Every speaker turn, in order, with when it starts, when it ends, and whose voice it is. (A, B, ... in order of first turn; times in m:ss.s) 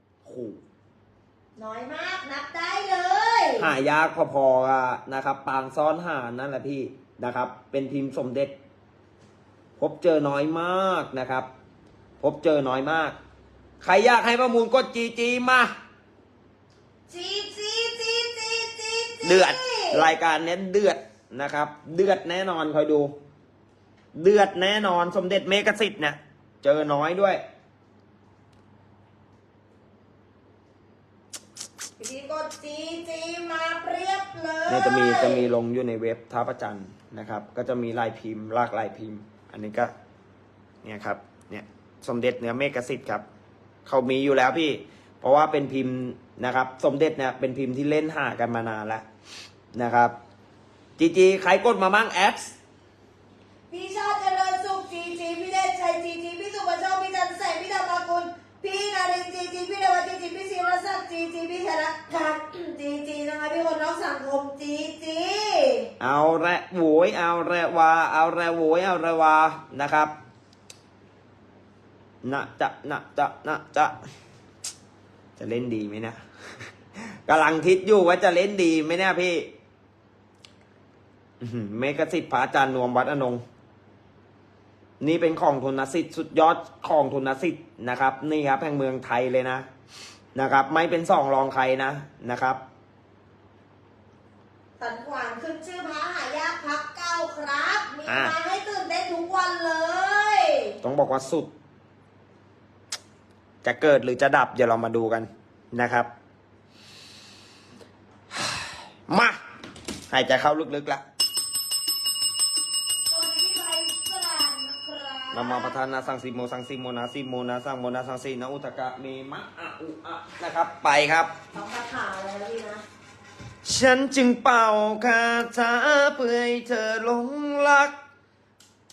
0:00.2-0:00.6 A
0:01.6-0:03.7 B
0:03.6-0:08.5 A
0:09.8-0:11.5 A
0:12.2-0:13.2 A
0:13.8-0:15.7 A
0:17.1-0:20.0 B
0:19.2-0:23.1 A
0:24.1-0:27.4 A
0:32.0-0:35.4 B
0:34.7-0:39.9 A
0:40.8-0:43.2 A
0:43.8-0:49.0 A
0:49.7-0:50.1 A
0:51.0-0:52.5 A
0:53.7-1:05.9 B
1:06.0-1:10.1 A
1:12.2-1:14.0 A
1:15.4-1:16.2 A
1:17.0-1:19.5 A
1:21.4-1:23.4 A
1:25.0-1:29.6 A
1:30.3-1:32.6 A
1:34.8-1:40.8 B
1:38.1-1:38.3 A
1:40.8-1:41.5 A
1:43.6-1:46.1 A
1:49.1-1:49.4 A
1:50.1-1:51.0 A
1:53.1-1:55.8 B
1:55.3-2:01.3 A
2:01.5-2:02.8 B
2:03.6-2:07.9 A